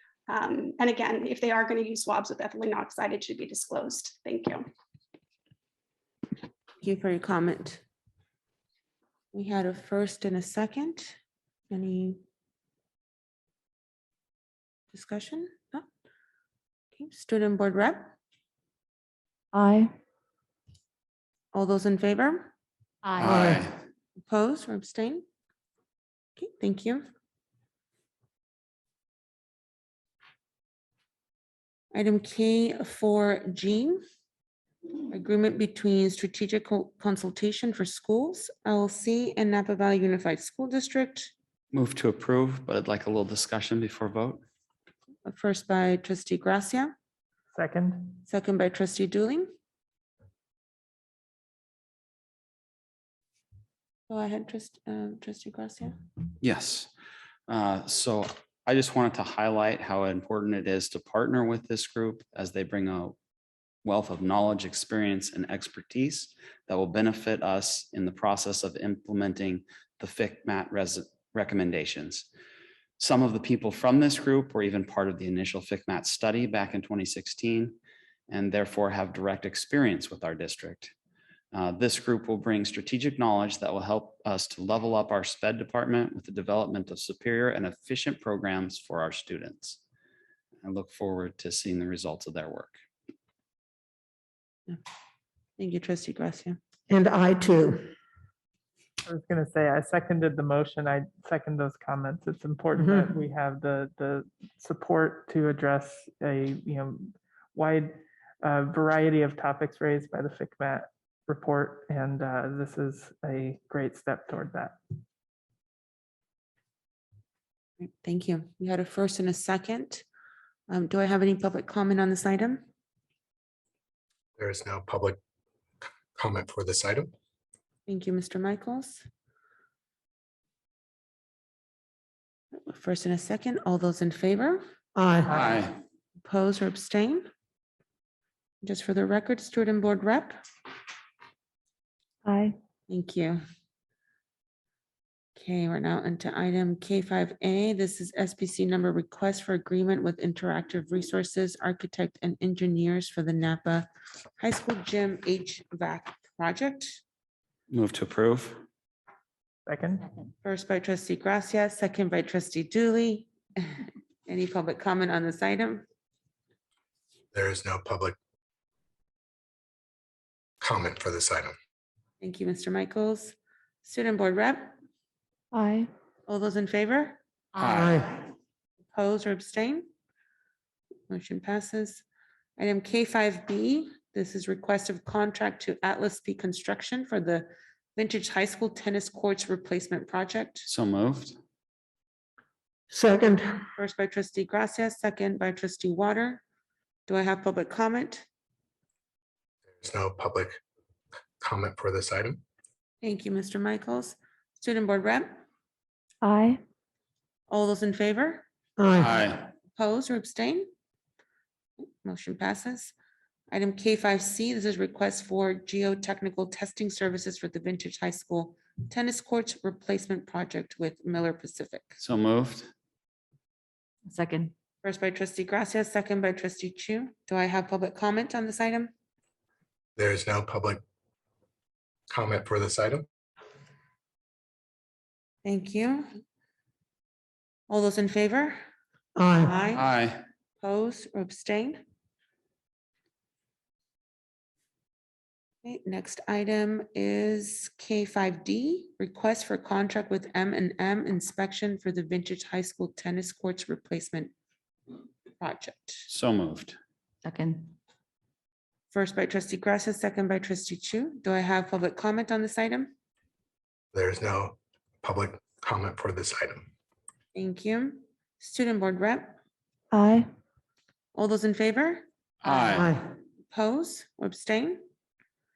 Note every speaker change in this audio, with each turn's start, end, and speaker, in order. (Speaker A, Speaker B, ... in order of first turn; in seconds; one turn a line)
Speaker A: 0.3-4.6
Speaker B: 6.8-7.8
Speaker B: 9.3-11.2
Speaker B: 11.7-12.2
Speaker B: 14.9-15.8
Speaker B: 16.9-18.1
Speaker C: 19.5-19.9
Speaker B: 21.5-22.5
Speaker D: 23.1-23.8
Speaker E: 23.3-23.6
Speaker B: 24.3-25.2
Speaker B: 26.4-27.1
Speaker B: 31.9-34.0
Speaker B: 35.1-41.3
Speaker D: 41.7-44.4
Speaker B: 45.2-46.9
Speaker F: 47.5-48.1
Speaker B: 48.3-49.5
Speaker B: 54.1-56.0
Speaker D: 56.4-56.9
Speaker D: 57.5-63.1
Speaker D: 63.8-72.3
Speaker D: 73.0-77.7
Speaker D: 78.3-80.9
Speaker D: 81.5-89.8
Speaker D: 90.6-92.8
Speaker B: 95.6-96.6
Speaker E: 96.9-97.9
Speaker F: 99.0-114.7
Speaker B: 117.8-120.0
Speaker B: 120.7-122.6
Speaker G: 124.4-125.2
Speaker G: 126.1-127.1
Speaker B: 127.9-129.0
Speaker B: 132.6-134.6
Speaker E: 134.9-135.4
Speaker D: 135.3-135.7
Speaker B: 136.2-137.2
Speaker B: 138.6-140.4
Speaker C: 142.3-142.5
Speaker B: 142.9-143.4
Speaker B: 145.3-153.9
Speaker B: 154.4-157.0
Speaker D: 157.7-158.6
Speaker F: 159.7-160.1
Speaker B: 160.4-165.8
Speaker G: 167.3-168.1
Speaker G: 170.6-171.5
Speaker B: 172.2-174.7
Speaker C: 175.5-175.9
Speaker B: 176.3-177.2
Speaker D: 177.6-178.0
Speaker E: 177.7-178.1
Speaker B: 178.9-179.8
Speaker B: 181.1-182.0
Speaker B: 182.6-190.7
Speaker D: 190.7-191.4
Speaker E: 192.9-193.4
Speaker B: 193.8-196.4
Speaker B: 197.1-198.2
Speaker G: 199.8-200.6
Speaker G: 201.4-202.4
Speaker B: 203.0-205.4
Speaker C: 206.2-206.6
Speaker B: 207.5-208.4
Speaker E: 208.8-209.1
Speaker D: 208.9-209.5
Speaker B: 209.7-210.7
Speaker B: 212.0-212.9
Speaker B: 213.5-222.0
Speaker D: 222.0-222.7
Speaker C: 224.1-224.5
Speaker B: 224.8-228.9
Speaker G: 230.0-230.8
Speaker G: 232.1-233.1
Speaker B: 235.4-236.1
Speaker B: 237.7-238.6
Speaker E: 239.2-239.5
Speaker B: 239.4-239.9
Speaker D: 239.7-240.2
Speaker B: 240.6-241.8
Speaker B: 245.6-254.3
Speaker B: 255.4-256.1
Speaker D: 256.1-256.8
Speaker C: 257.2-257.7
Speaker B: 258.9-262.9
Speaker G: 263.9-266.7
Speaker B: 267.3-269.4
Speaker C: 269.9-270.2
Speaker B: 271.1-272.0
Speaker D: 272.4-273.0
Speaker E: 272.7-273.0
Speaker B: 273.5-274.8